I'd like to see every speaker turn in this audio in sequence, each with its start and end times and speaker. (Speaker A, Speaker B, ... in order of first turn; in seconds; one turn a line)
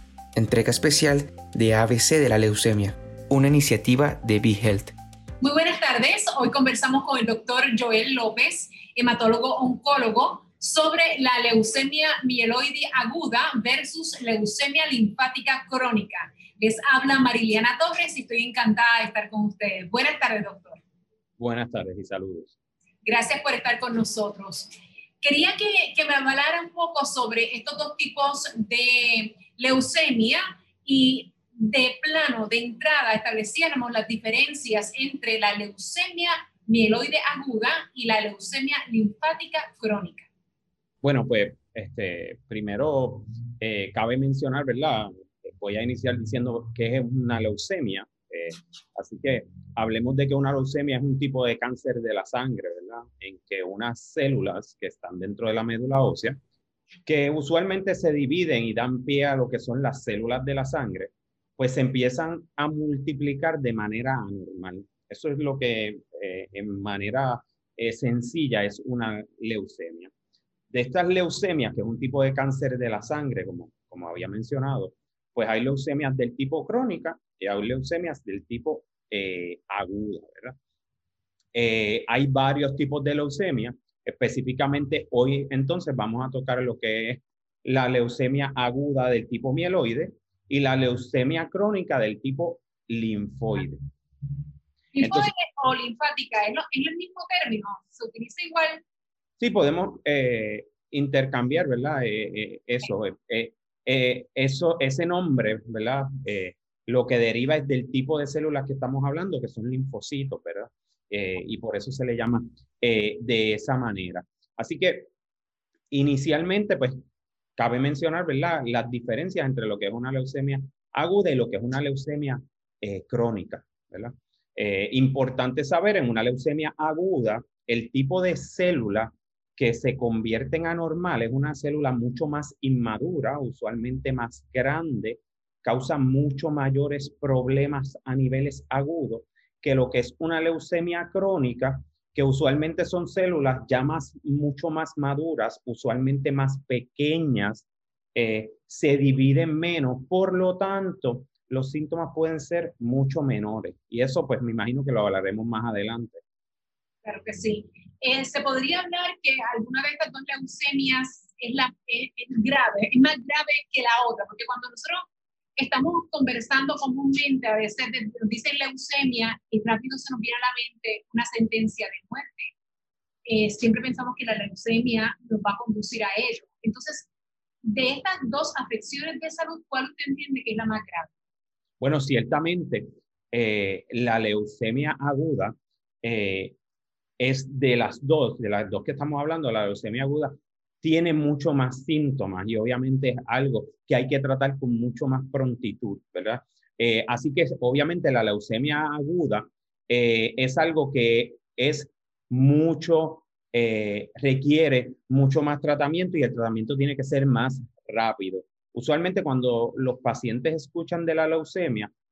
Speaker A: 0.3-4.9
Speaker B: 5.4-20.8
Speaker C: 21.4-22.5
Speaker B: 23.0-40.3
Speaker C: 41.0-56.4
Speaker C: 57.0-70.1
Speaker C: 70.7-80.5
Speaker C: 81.5-93.8
Speaker B: 94.9-98.8
Speaker C: 95.0-95.3
Speaker C: 99.4-115.1
Speaker C: 115.9-117.0
Speaker C: 117.6-156.2
Speaker B: 157.0-172.5
Speaker B: 173.2-177.1
Speaker B: 177.6-181.1
Speaker C: 181.8-186.5
Speaker C: 187.2-211.9